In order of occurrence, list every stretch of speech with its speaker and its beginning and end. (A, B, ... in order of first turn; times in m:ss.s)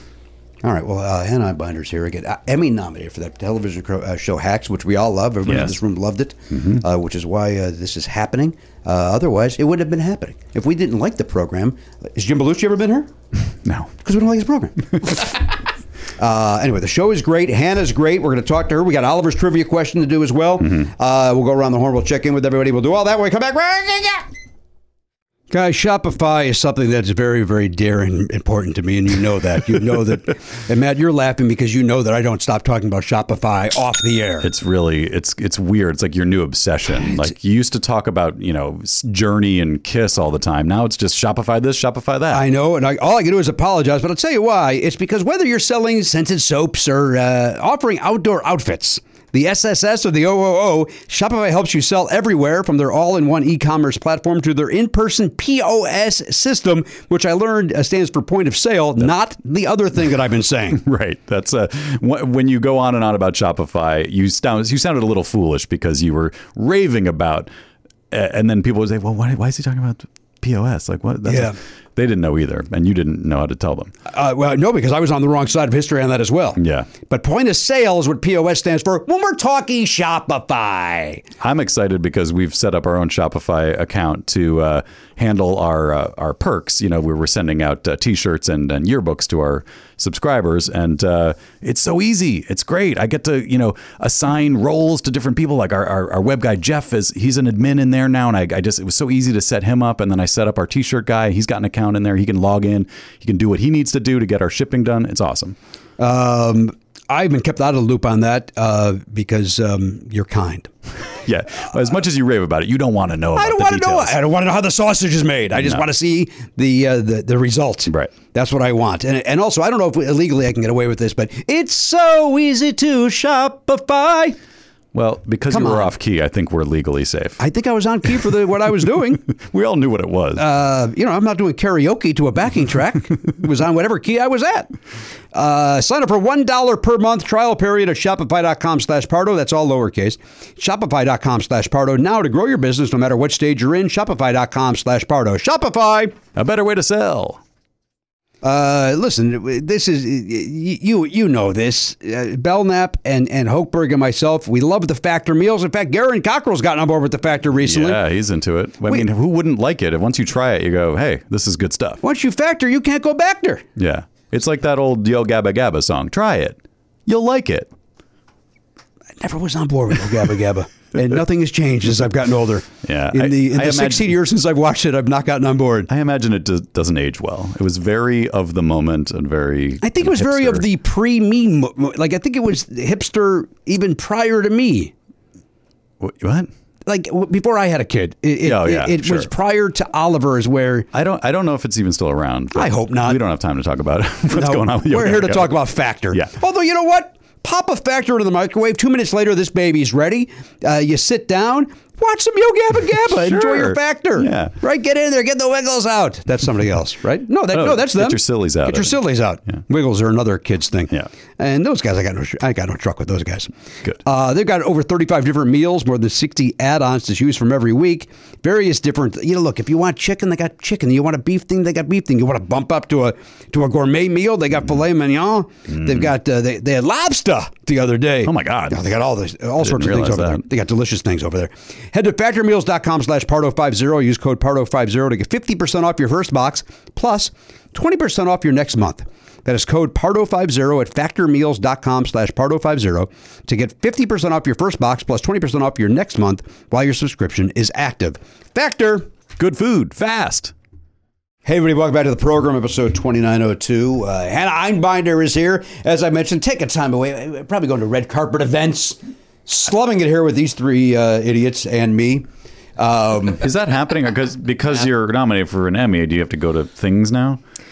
0:00.6-0:13.1 A
0:05.4-0:05.8 B
0:06.5-0:06.8 B
0:13.6-0:13.9 B
0:14.0-0:15.3 A
0:16.2-0:24.3 A
0:25.5-0:34.5 A
0:34.4-0:42.4 B
0:36.9-0:37.3 A
0:42.3-1:00.8 A
1:00.7-1:07.5 B
1:08.1-1:13.9 B
1:11.2-1:11.6 A
1:14.1-1:21.2 A
1:16.6-1:16.9 B
1:21.4-1:45.6 B
1:46.0-1:50.7 A
1:51.2-1:54.2 B
1:53.3-2:04.4 A
1:57.9-1:58.1 B
2:04.9-2:07.4 B
2:05.5-2:05.9 A
2:07.4-2:09.2 A
2:09.3-2:10.4 B
2:10.4-2:14.7 A
2:15.3-2:26.2 A
2:26.3-2:27.4 B
2:28.4-2:38.0 A
2:37.6-2:42.0 B
2:42.0-2:43.6 A
2:43.8-2:47.7 B
2:49.2-2:55.9 A
2:52.8-2:54.2 B
2:55.9-3:00.7 B
2:59.8-3:04.9 A
3:06.0-3:06.5 B
3:06.8-3:10.9 A
3:08.4-3:09.3 B
3:10.9-3:15.6 B
3:12.5-3:13.2 A
3:14.3-3:33.5 A
3:23.0-3:24.6 B
3:27.5-3:29.6 B
3:34.0-4:09.1 A
3:45.7-3:46.1 B
3:48.2-3:48.8 B
3:49.6-3:50.4 B
4:09.4-4:10.5 B
4:11.4-4:23.4 A
4:23.4-4:27.4 B